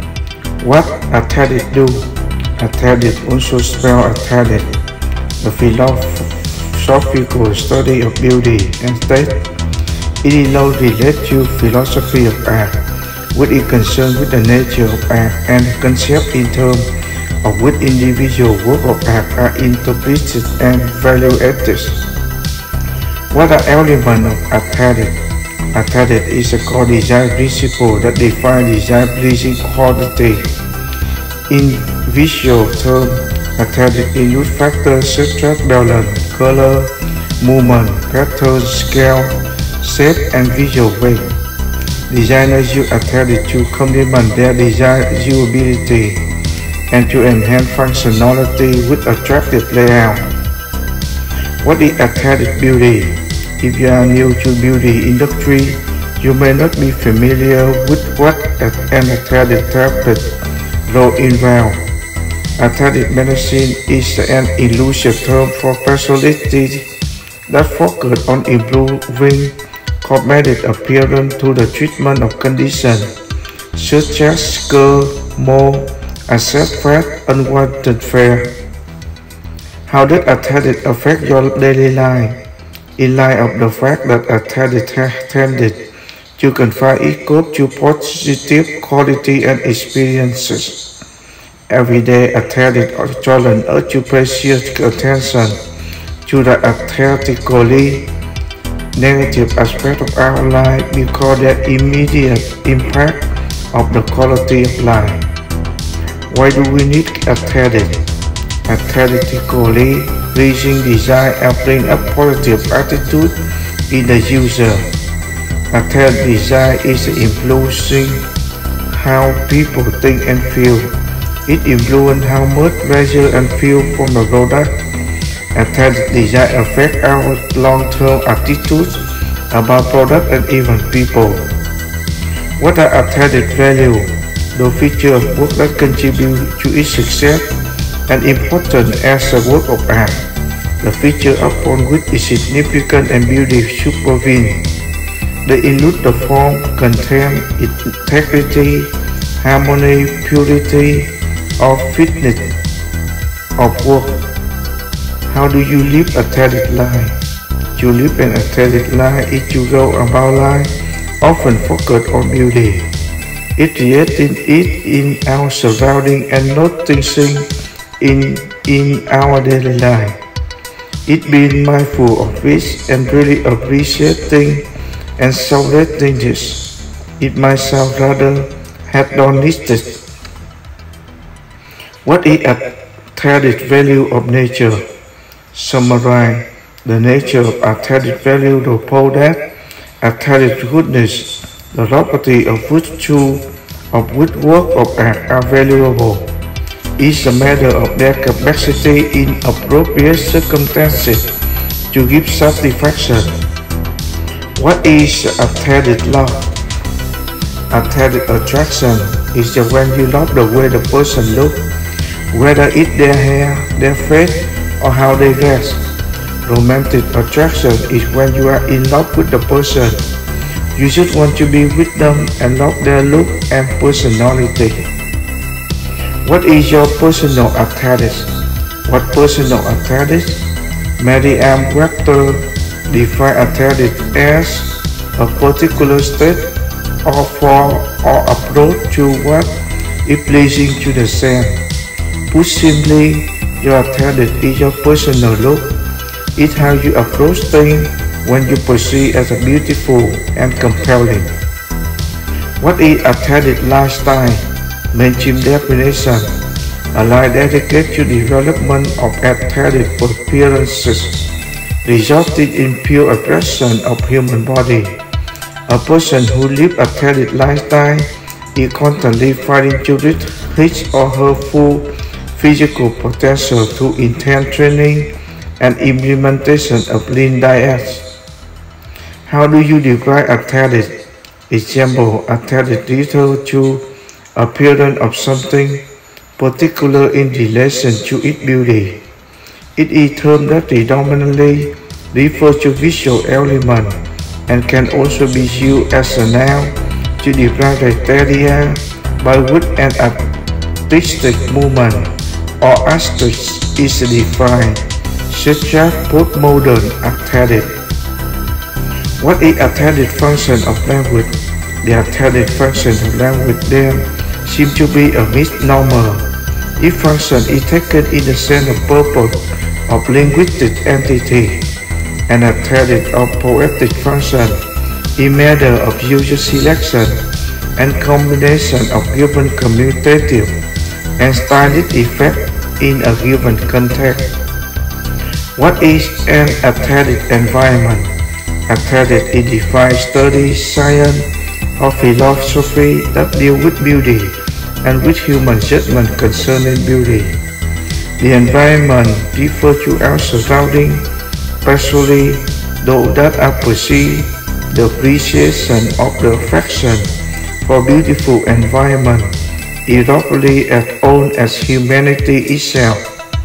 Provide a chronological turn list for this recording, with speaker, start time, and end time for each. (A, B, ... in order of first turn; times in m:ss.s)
0:00.6-0:04.7 A
0:05.4-0:09.5 A
0:10.2-0:22.1 A
0:23.3-0:25.2 A
0:25.7-0:30.5 A
0:31.5-0:41.4 A
0:42.1-0:46.3 A
0:46.9-0:50.3 A
0:51.6-1:00.3 A
1:00.8-1:01.8 A
1:02.6-1:06.9 A
1:07.5-1:13.1 A
1:13.7-1:18.5 A
1:19.9-1:22.4 A
1:23.0-1:25.8 A
1:26.4-1:30.8 A
1:31.7-1:35.6 A
1:36.2-1:38.1 A
1:38.9-1:45.2 A
1:46.3-1:48.0 A
1:48.6-1:53.4 A
1:53.9-1:54.9 A
1:55.7-1:58.3 A
1:58.9-2:04.8 A
2:05.5-2:11.5 A
2:12.6-2:17.5 A
2:18.1-2:20.3 A
2:20.8-2:24.7 A
2:25.4-2:32.6 A
2:33.6-2:34.2 A
2:35.3-2:37.2 A
2:37.7-2:42.9 A
2:43.6-2:50.2 A
2:51.0-3:00.0 A
3:02.0-3:04.8 A
3:05.5-3:09.4 A
3:10.0-3:16.3 A
3:17.0-3:21.4 A
3:21.9-3:23.4 A
3:24.5-3:26.5 A
3:27.7-3:31.6 A
3:32.3-3:35.9 A
3:36.4-3:40.0 A
3:40.7-3:44.9 A
3:46.2-3:56.5 A
3:57.0-4:01.6 A
4:02.3-4:05.7 A
4:06.4-4:11.3 A
4:12.6-4:16.4 A
4:16.9-4:25.0 A
4:25.7-4:38.1 A
4:39.2-4:41.0 A
4:41.5-4:45.8 A
4:46.4-4:49.0 A
4:49.8-5:00.2 A
5:00.9-5:07.8 A
5:09.2-5:16.3 A
5:16.8-5:21.7 A
5:22.3-5:24.6 A
5:25.2-5:27.2 A
5:27.8-5:30.5 A
5:31.2-5:34.3 A
5:35.6-5:38.1 A
5:38.7-5:47.4 A
5:48.2-5:51.1 A
5:51.6-5:57.1 A
5:57.6-6:03.1 A